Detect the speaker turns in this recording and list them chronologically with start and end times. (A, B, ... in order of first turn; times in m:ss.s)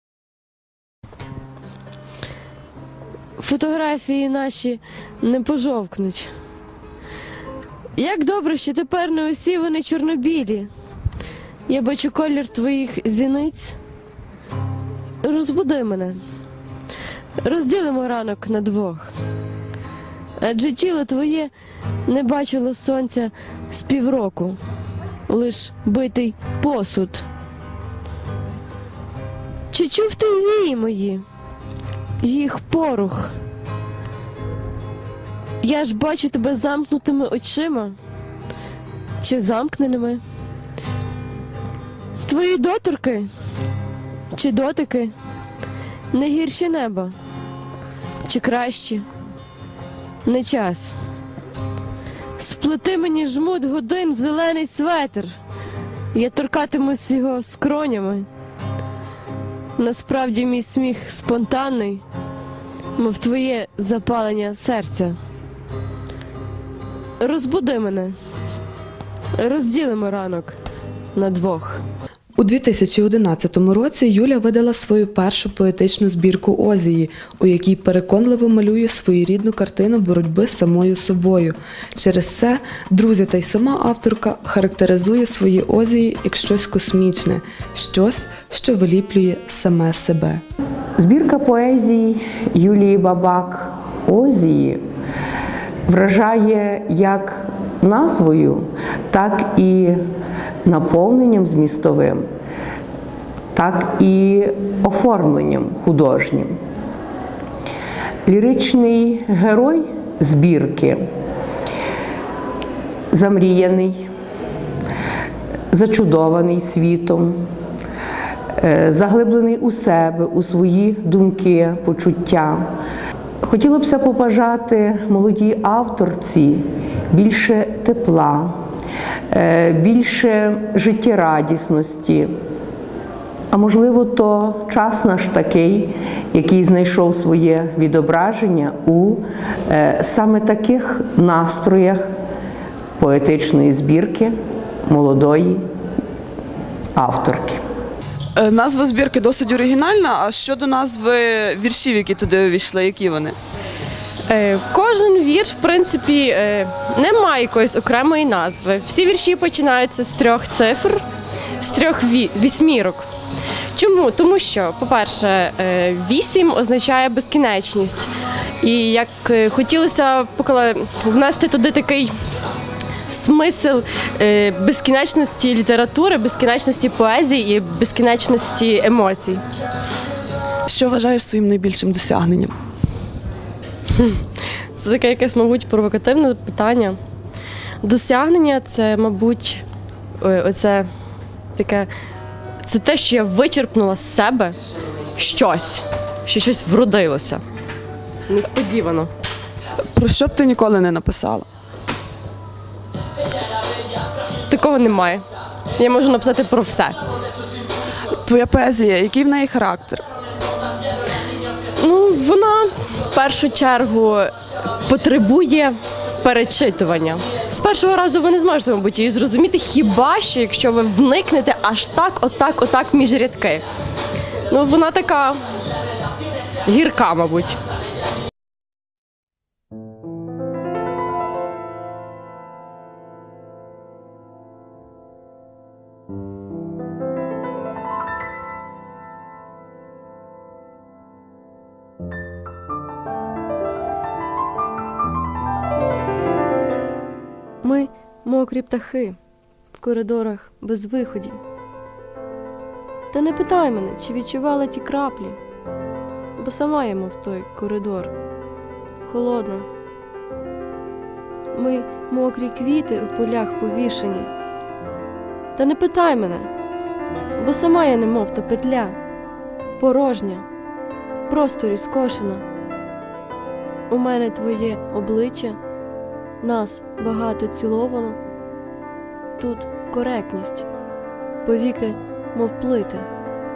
0:03.4-0:06.3 A
0:08.0-0:10.7 A
0:11.7-0:13.8 A
0:15.2-0:16.2 A
0:17.4-0:19.1 A
0:20.4-0:21.5 A
0:22.1-0:24.6 A
0:25.3-0:27.2 A
0:29.7-0:31.2 A
0:32.2-0:33.4 A
0:35.6-0:38.0 A
0:39.2-0:40.2 A
0:42.3-0:43.3 A
0:44.3-0:45.1 A
0:46.1-0:47.2 A
0:48.2-0:49.0 A
0:50.2-0:51.0 A
0:52.4-0:55.4 A
0:56.1-0:58.3 A
0:59.8-1:02.0 A
1:03.0-1:05.2 A
1:07.2-1:08.2 A
1:09.4-1:10.6 A
1:11.2-1:11.8 A
1:12.4-1:30.4 B
1:31.0-1:34.8 C
1:35.9-1:40.0 C
1:40.6-1:42.3 C
1:43.5-1:46.6 C
1:48.3-1:51.0 C
1:53.1-1:54.1 C
1:55.7-1:57.4 C
1:58.6-2:02.7 C
2:03.4-2:08.6 C
2:09.3-2:12.3 C
2:13.5-2:22.1 C
2:23.0-2:25.6 C
2:27.0-2:27.6 C
2:28.4-2:33.4 D
2:34.3-2:41.0 A
2:41.6-2:43.1 A
2:43.7-2:52.1 A
2:53.1-2:59.4 A
3:00.7-3:02.5 D
3:04.0-3:07.0 A
3:07.8-3:09.6 A
3:10.2-3:10.9 A
3:11.6-3:11.9 A
3:12.6-3:14.6 A
3:15.2-3:17.4 A
3:18.3-3:19.1 A
3:19.9-3:21.5 D
3:24.4-3:25.2 A
3:25.8-3:27.0 A
3:28.2-3:30.0 D
3:31.8-3:43.7 A
3:44.5-3:45.4 A
3:46.7-3:47.6 A
4:07.6-4:09.2 A
4:09.8-4:11.4 A
4:13.1-4:15.4 A
4:16.4-4:18.1 A
4:19.0-4:19.7 A
4:21.5-4:24.3 A
4:25.6-4:26.5 A
4:27.4-4:29.0 A
4:29.8-4:30.4 A
4:31.3-4:32.4 A
4:33.9-4:35.6 A
4:36.4-4:38.2 A
4:39.4-4:40.7 A
4:41.4-4:43.1 A